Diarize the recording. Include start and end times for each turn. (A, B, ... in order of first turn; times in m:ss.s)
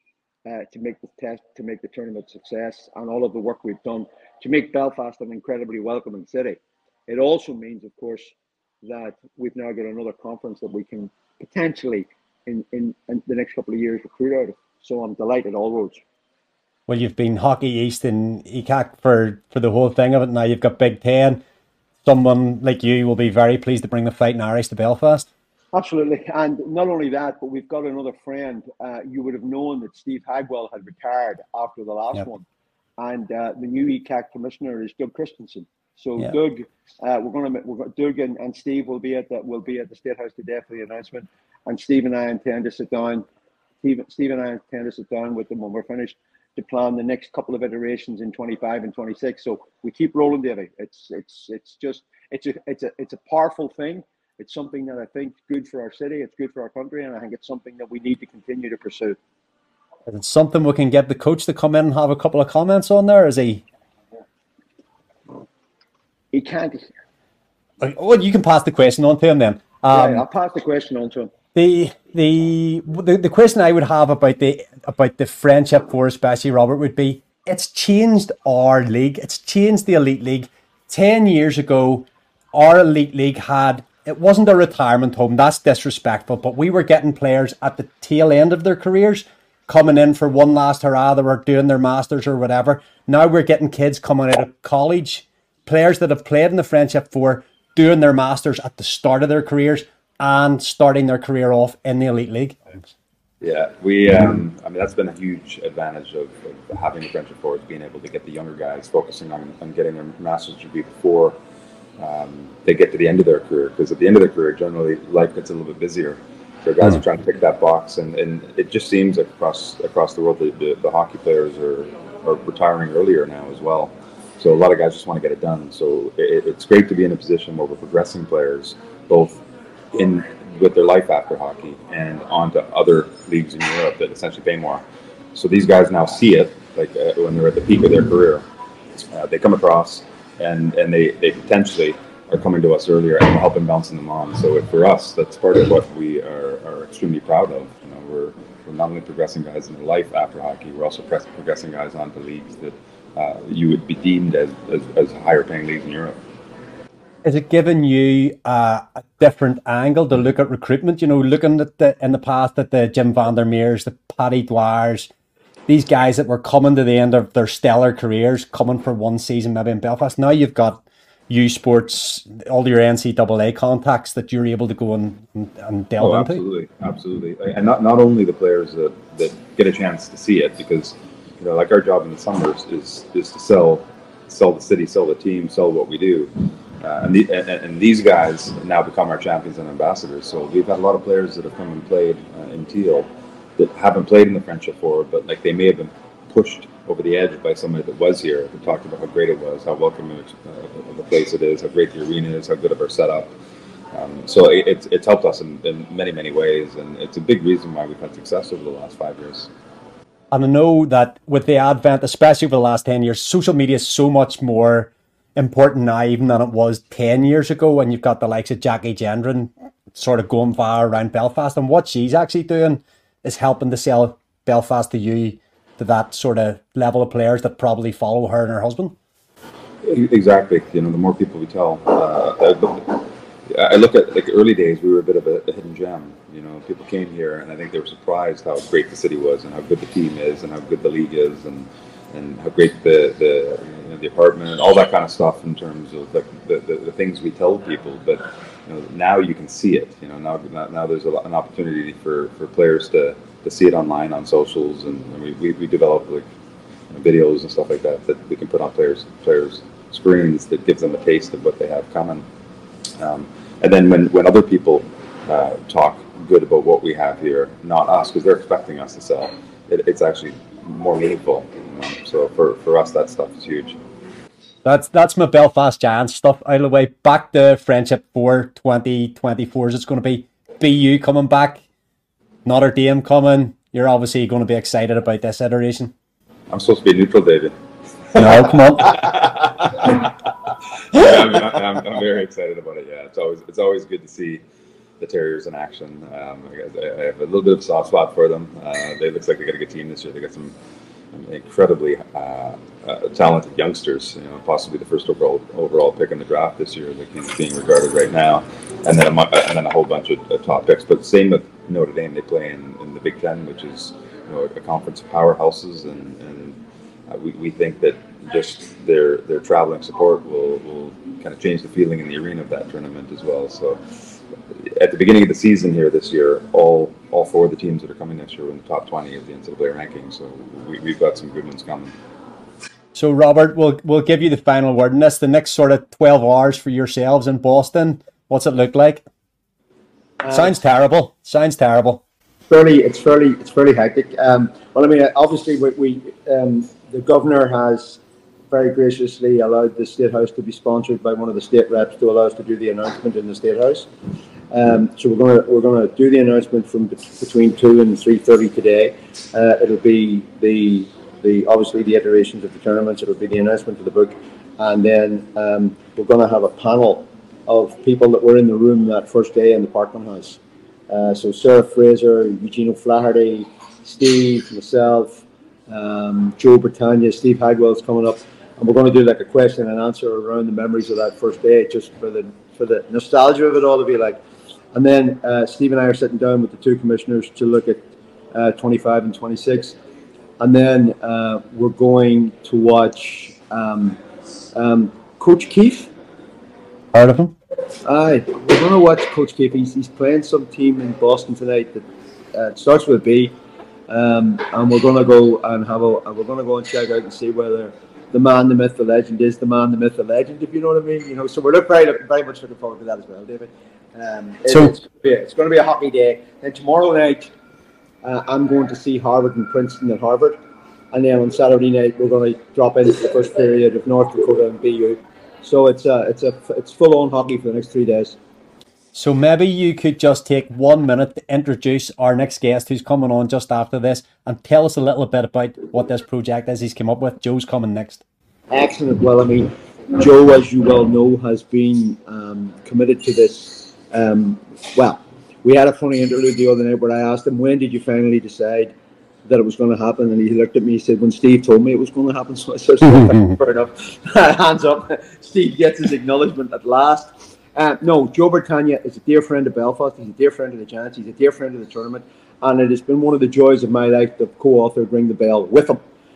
0:00.4-0:16.0 A
0:16.9-0:21.4 B
0:22.0-0:25.3 B
0:25.7-0:32.4 A
0:33.0-0:43.2 A
0:43.8-0:59.2 A
1:00.1-1:03.6 B
1:06.3-1:06.9 A
1:07.8-1:10.2 B
1:09.9-1:11.3 A
1:11.5-1:42.9 B
1:43.4-1:51.4 C
1:52.0-2:14.8 C
2:15.3-2:18.4 C
2:19.0-2:36.2 C
2:37.2-2:45.1 B
2:45.7-2:56.4 B
2:56.0-3:23.3 C
3:23.9-3:29.5 C
3:30.3-3:49.0 B
3:49.8-4:16.2 C
4:16.9-4:22.2 C
4:23.0-4:33.8 C
4:34.6-4:41.6 B
4:42.4-4:45.9 B
4:46.5-4:47.6 C
4:48.1-4:54.4 C
4:48.1-4:49.0 B
4:55.0-5:00.5 C
5:01.1-5:23.8 C
5:24.5-5:31.9 C
5:32.9-5:39.0 B
5:40.2-5:40.5 A
5:40.3-5:42.0 B
5:42.5-5:48.0 A
5:48.5-5:53.9 A
5:54.5-6:10.4 A
6:10.9-6:24.2 A
6:24.7-6:29.8 A
6:30.4-6:34.0 A
6:34.5-6:35.9 A
6:36.9-6:37.3 B
6:37.8-6:43.3 A
6:43.9-6:57.3 A
6:58.0-7:00.4 A
7:00.9-7:08.2 A
7:08.9-7:18.0 B
7:18.5-7:28.7 A
7:29.2-7:45.8 A